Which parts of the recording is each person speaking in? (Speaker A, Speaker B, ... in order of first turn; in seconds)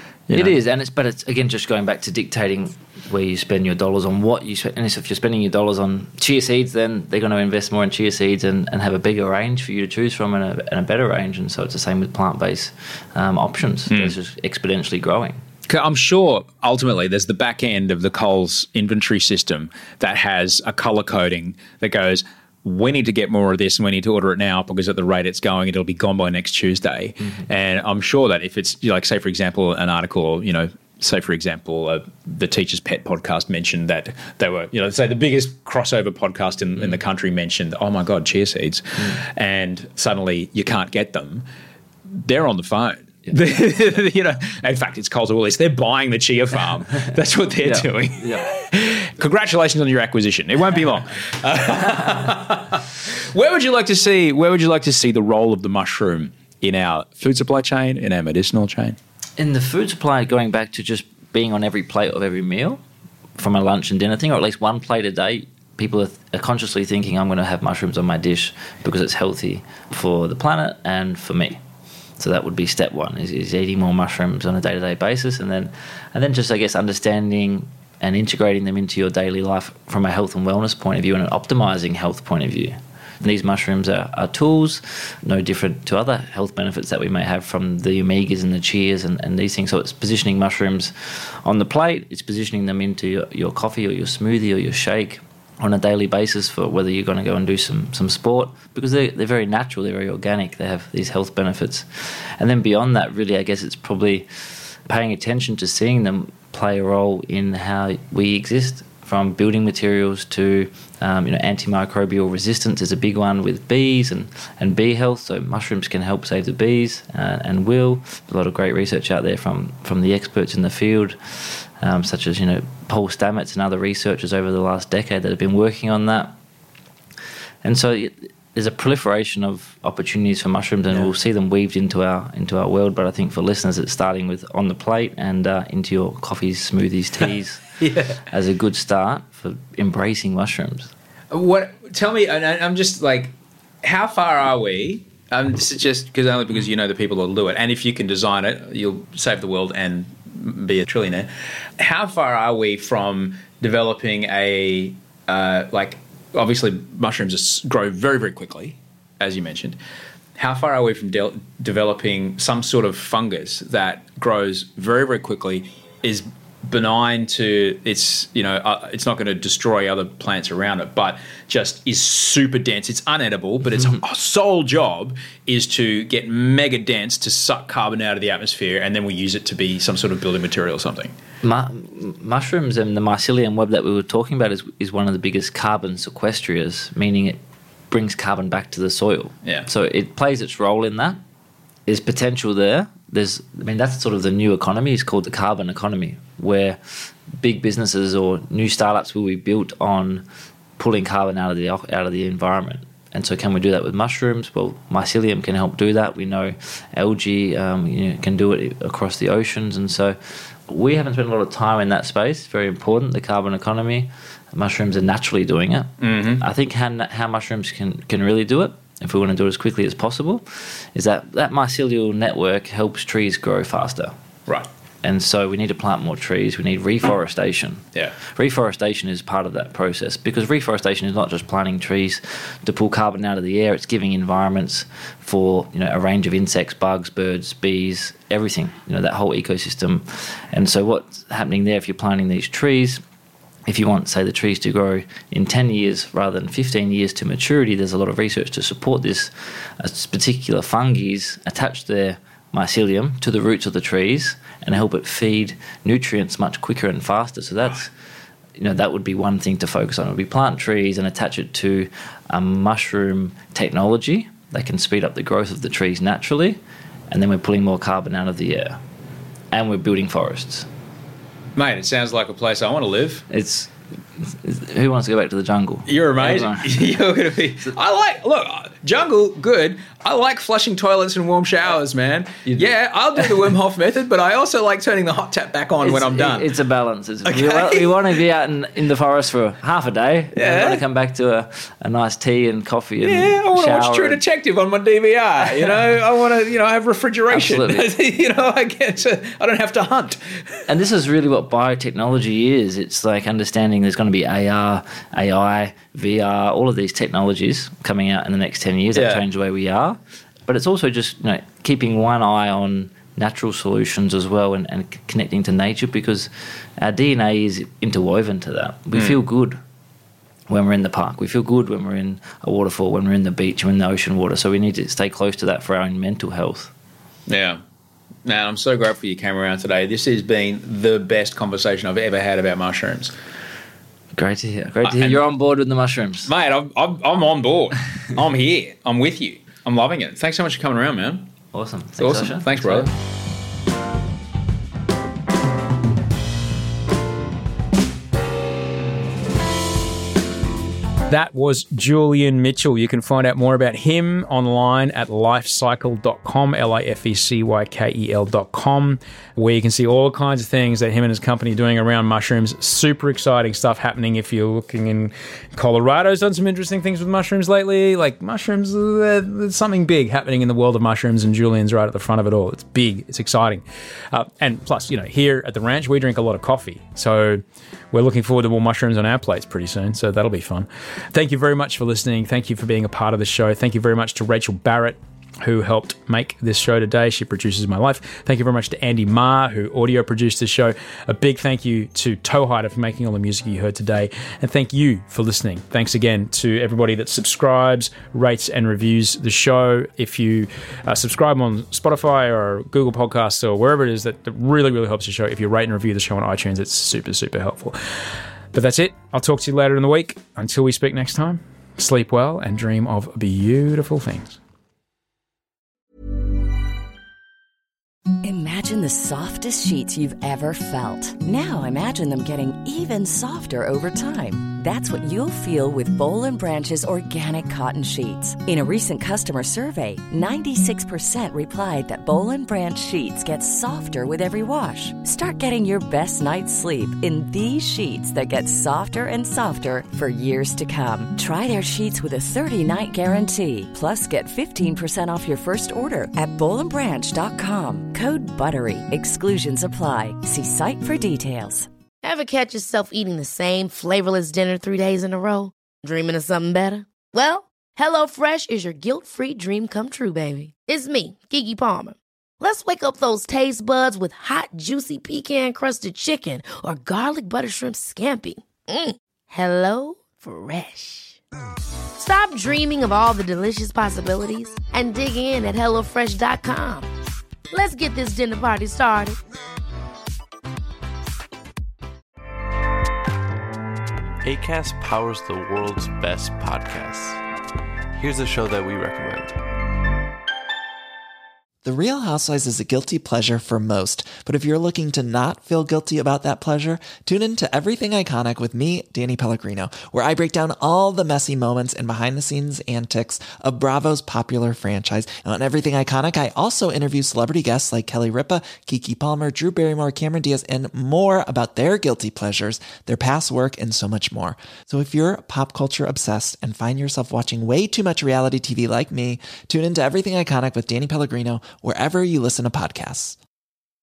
Speaker A: 0.3-0.6, 13.9-14.1, 15.7-41.5, 42.1-59.0, 137.8-138.2, 141.3-159.8, 160.4-181.1, 216.0-216.4, 271.6-273.3, 275.9-286.6, 287.2-288.2, 290.3-290.8, 293.0-300.6, 308.9-309.2, 327.3-327.6, 328.2-333.1, 334.8-335.2, 336.3-341.3, 342.0-342.9, 351.1-407.8, 408.5-414.4
Speaker B: 0.3-15.4, 47.6-48.5, 59.4-62.8, 63.4-71.6, 72.2-104.3, 104.9-126.3, 127.6-137.6, 138.2-140.9, 181.4-187.4, 187.9-191.2, 191.9-200.2, 200.8-224.1, 225.0-243.0, 243.7-257.9, 258.6-266.6, 267.1-268.8, 269.5-270.7, 273.3-276.7, 282.4-282.7, 285.8-294.2, 297.3-297.9, 300.7-319.6, 320.5-326.7, 334.2-336.3, 341.5-342.9
Speaker C: 418.2-451.7
Speaker D: 452.0-471.2, 472.0-476.9, 477.5-479.2
Speaker E: 484.2-487.2, 487.9-489.4
Speaker F: 491.6-523.2